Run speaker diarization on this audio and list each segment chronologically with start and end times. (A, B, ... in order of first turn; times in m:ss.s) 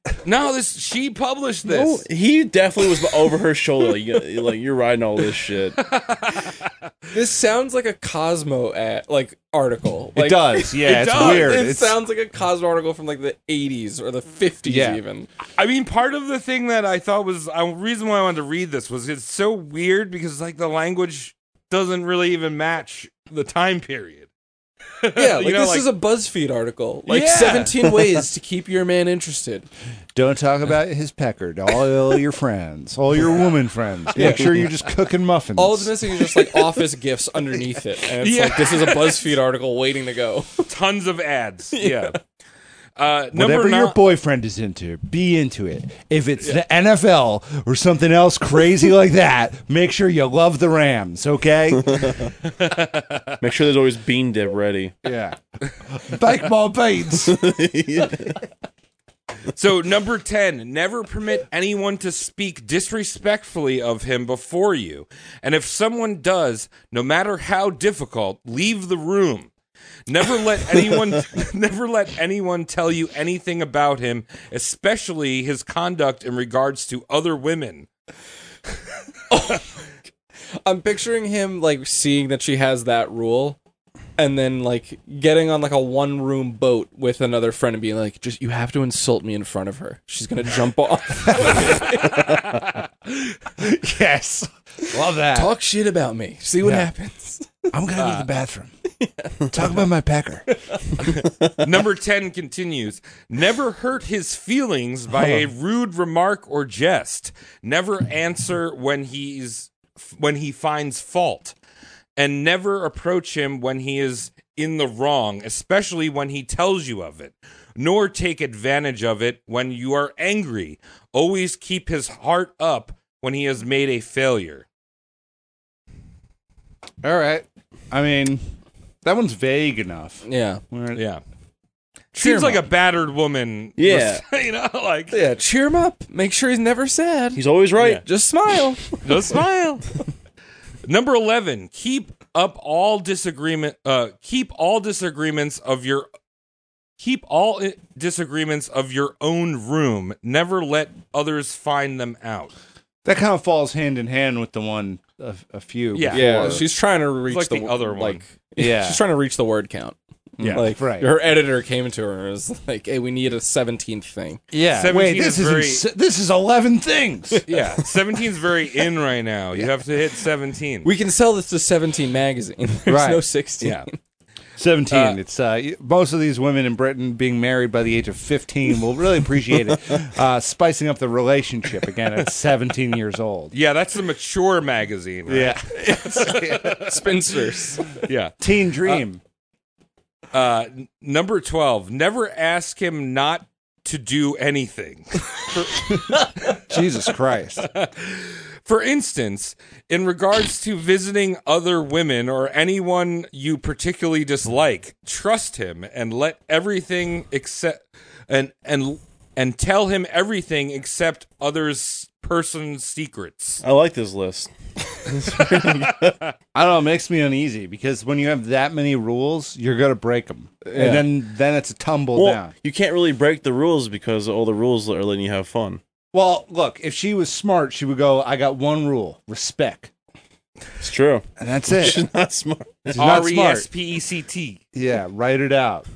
0:00.2-0:02.0 A
0:01.6-0:05.8 B
0:05.8-0:06.6 A
0:07.1-0:15.3 C
0:10.2-0:12.0 D
0:10.8-0:11.6 A
0:14.6-0:15.0 D
0:15.6-0:24.3 A
0:25.0-0:25.9 A
0:25.1-0:29.7 C
0:27.1-0:28.2 A
0:30.1-0:35.9 D
0:34.1-0:34.5 C
0:35.6-0:40.7 C
0:38.2-0:39.3 A
0:40.7-0:42.2 A
0:41.7-0:42.2 C
0:43.0-0:44.0 A
0:43.3-0:52.2 D
0:51.9-0:52.3 B
0:52.4-0:53.4 A
0:53.4-0:55.0 B
0:55.0-0:55.4 D
0:55.9-0:57.4 D
0:57.2-0:58.4 B
0:59.5-1:09.5 A
1:10.1-1:17.9 A
1:19.3-1:19.6 C
1:20.6-1:23.6 C
1:24.2-1:32.2 C
1:32.0-1:32.7 A
1:33.6-1:35.5 D
1:35.3-1:37.6 C
1:36.6-1:36.9 D
1:37.7-1:38.7 D
1:38.0-1:38.3 A
1:39.0-1:39.3 C
1:39.5-1:40.5 D
1:41.6-1:51.6 A
1:52.2-2:04.6 A
2:07.0-2:08.4 D
2:09.0-2:11.0 D
2:10.2-2:10.6 C
2:11.0-2:11.2 A
2:12.1-2:12.6 C
2:12.1-2:15.2 A
2:13.8-2:14.2 B
2:15.1-2:19.0 C
2:17.4-2:18.0 B
2:19.0-2:19.9 A
2:20.8-2:26.1 A
2:27.0-2:32.5 A
2:33.0-2:36.6 D
2:35.9-2:36.7 A
2:36.1-2:44.4 C
2:37.3-2:38.2 A
2:38.6-2:39.0 D
2:40.4-2:41.1 D
2:44.5-2:47.4 D
2:44.7-2:45.8 A
2:47.4-2:50.9 A
2:50.8-2:54.0 C
2:52.9-2:53.2 D
2:53.6-2:53.9 A
2:54.6-3:03.5 D
2:54.9-2:55.2 A
3:03.5-3:07.1 A
3:05.3-3:06.8 D
3:05.7-3:07.9 C
3:07.9-3:09.0 A
3:08.4-3:09.2 D
3:10.3-3:16.6 A
3:16.5-3:17.6 D
3:17.6-3:33.6 A
3:33.6-3:36.2 B
3:35.6-3:36.1 A
3:36.5-3:42.5 D
3:40.7-3:41.0 B
3:42.1-3:45.8 B
3:46.1-3:49.9 D
3:50.8-3:53.2 B
3:51.4-3:52.0 D
3:52.9-3:53.7 D
3:53.0-3:54.6 A
3:54.7-3:55.8 D